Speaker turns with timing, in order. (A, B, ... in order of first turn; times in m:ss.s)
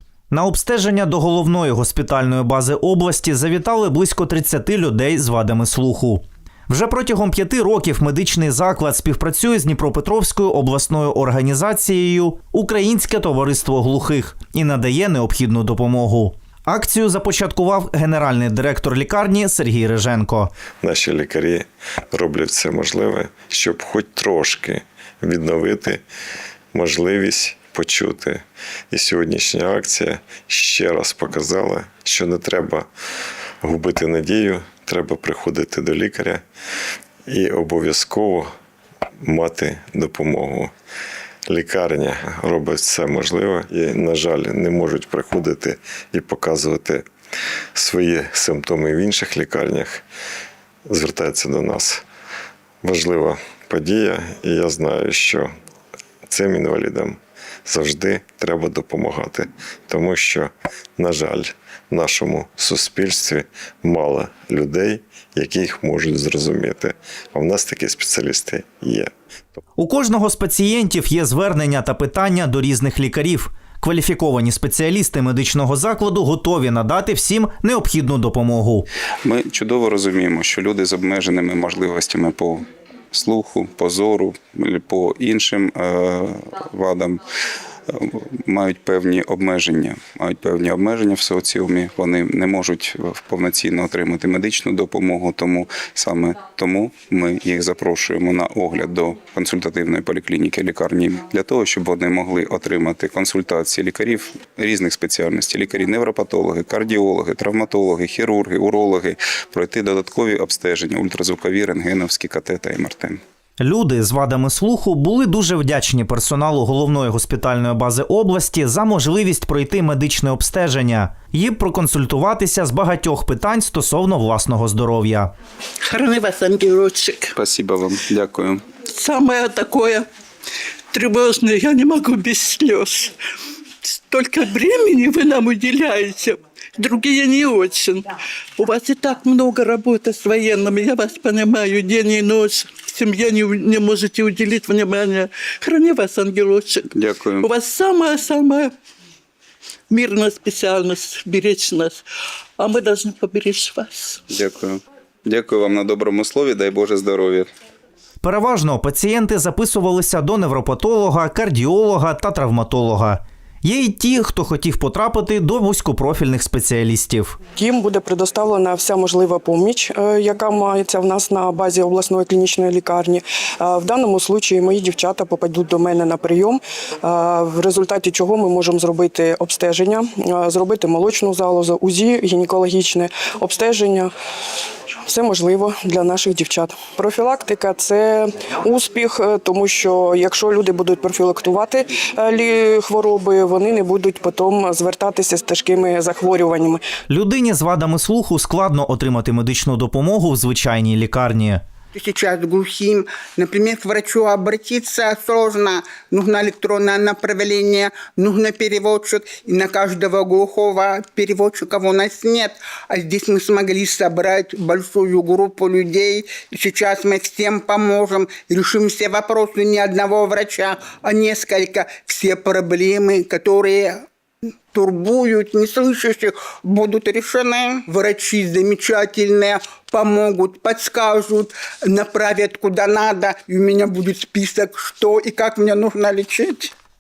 0:00.3-0:20.5 A
0:20.8-0:26.0 B
0:26.7-0:32.9 B
0:33.6-0:36.4 B
0:37.3-0:38.5 B
0:39.2-0:40.7 B
0:41.5-0:47.0 B
0:47.7-0:50.0 B
0:50.9-0:52.0 B
0:52.8-0:55.5 B
0:56.3-1:09.1 B
1:09.8-1:18.9 A
1:19.2-1:27.2 C
1:27.9-1:53.2 C
1:53.6-2:05.3 A
2:05.8-2:07.3 D
2:07.4-2:08.6 C
2:08.9-2:10.0 D
2:10.9-2:13.1 D
2:14.1-2:18.0 D
2:18.6-2:26.9 D
2:26.9-2:27.5 C
2:27.4-2:28.7 D
2:29.9-2:32.0 D
2:32.6-2:34.2 D
2:34.3-2:37.5 C
2:38.2-2:47.4 A
2:47.5-3:04.1 E
3:05.0-3:16.8 E
3:17.1-3:21.6 A
3:21.9-3:44.0 F
3:44.7-3:56.7 F